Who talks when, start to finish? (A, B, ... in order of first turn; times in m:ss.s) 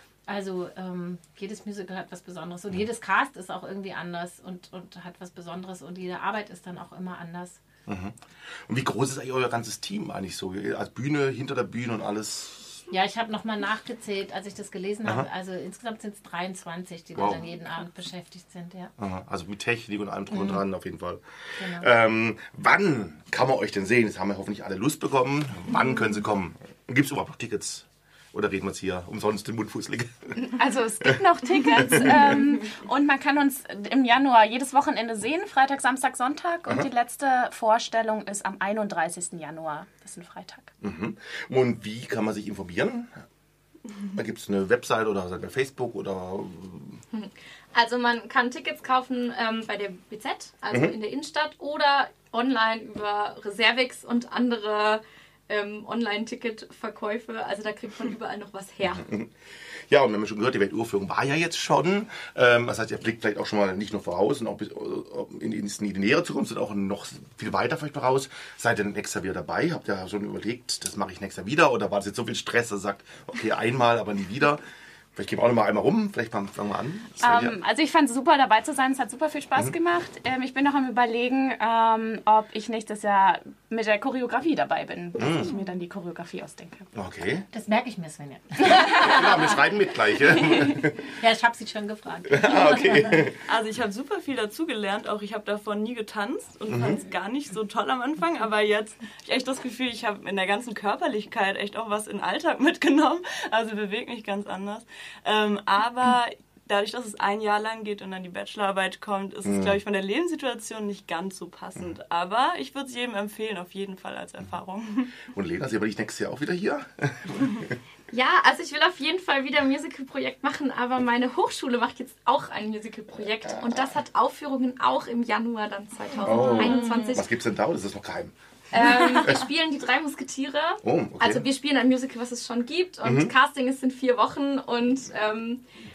0:00.3-0:07.6 A
0:07.9-0:12.8 B
0:12.9-0:18.9 A
0:17.2-0:17.4 B
0:19.0-0:30.4 B
0:20.3-0:20.6 A
0:21.6-0:21.9 A
0:30.4-0:40.7 C
0:31.0-0:32.4 B
0:40.8-0:43.2 B
0:44.1-0:47.0 B
0:47.1-0:59.1 D
0:50.7-0:51.0 B
0:58.9-0:59.3 B
0:59.9-1:14.6 B
1:15.2-1:17.6 B
1:17.2-1:26.9 C
1:25.2-1:25.5 B
1:26.9-1:27.5 B
1:27.5-1:29.3 A
1:28.7-1:31.0 B
1:31.2-1:33.3 A
1:32.3-1:33.4 B
1:33.5-1:55.1 E
1:36.7-1:37.0 B
1:49.4-1:49.8 B
1:55.3-1:57.7 B
1:58.1-2:07.3 D
2:03.4-2:04.0 B
2:06.2-2:08.3 B
2:06.4-2:07.2 C
2:08.7-2:15.6 D
2:09.2-2:09.5 B
2:10.8-2:11.4 B
2:13.0-2:13.3 B